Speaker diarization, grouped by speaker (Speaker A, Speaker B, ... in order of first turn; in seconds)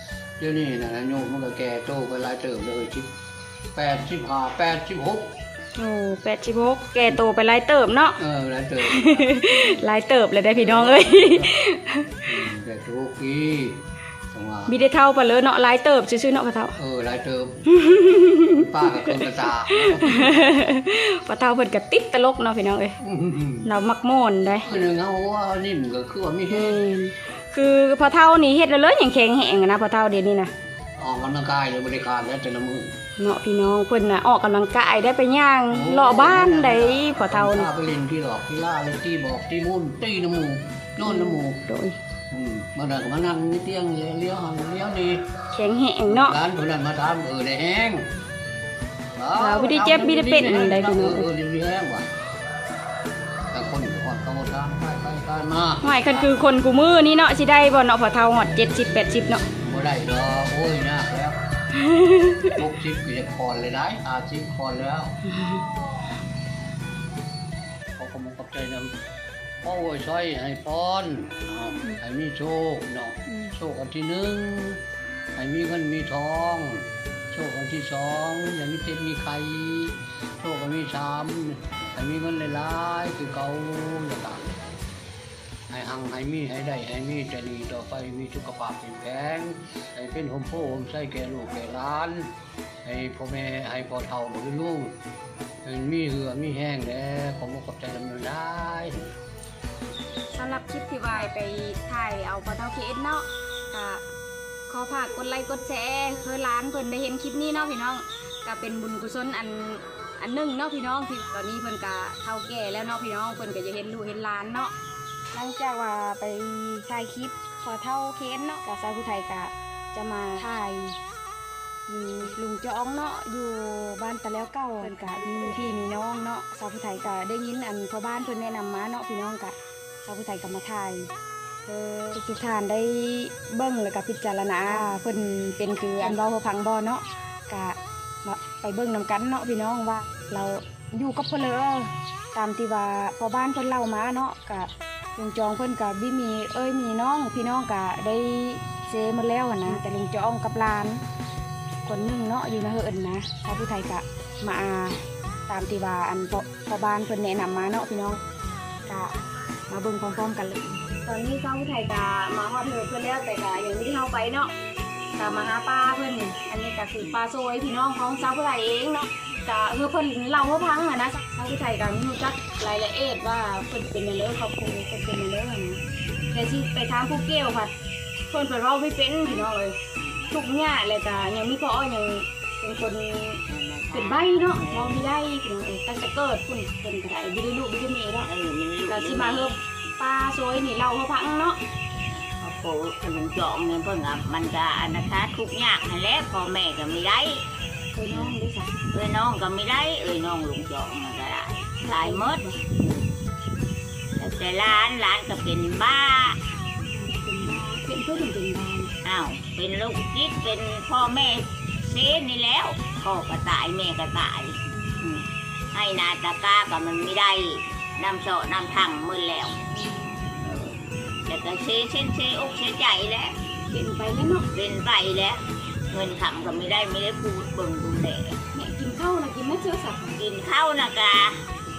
Speaker A: 0.4-3.1, 3.8-5.4, 8.2-9.8, 10.5-11.5, 12.2-14.8, 16.8-17.6, 18.5-20.6, 23.0-23.7, 24.6-26.8, 31.0-32.9, 35.7-41.7, 42.3-45.3, 46.1-48.1, 49.2-52.1, 53.5-56.1, 59.6-61.4, 62.5-65.2, 68.0-68.9, 69.6-74.8, 75.4-84.5, 85.7-92.3, 92.8-95.0, 95.6-99.1
Speaker B: 5.8-8.2, 8.8-12.2, 14.7-16.8, 17.7-23.0, 23.6-24.7, 26.5-30.5, 33.2-37.7, 41.0-42.0, 45.5-46.4, 49.4-51.3, 55.8-59.4, 61.8-62.6, 65.3-65.6, 100.3-104.0, 104.7-114.7, 115.3-121.0, 121.9-131.1, 131.7-151.0, 151.8-158.2, 158.9-159.2, 159.7-164.5, 165.2-175.8, 176.3-177.7, 178.3-179.8, 180.3-188.3, 188.9-191.6, 197.9-198.7, 201.8-202.6, 206.9-208.9, 214.7-215.1, 220.4-220.8, 223.7-224.5, 228.5-230.2
Speaker C: 183.5-185.1, 188.2-189.5, 192.4-197.4, 198.1-198.4, 198.9-203.0, 204.2-206.4, 209.0-219.6, 221.3-223.4, 224.5-228.4, 230.2-231.4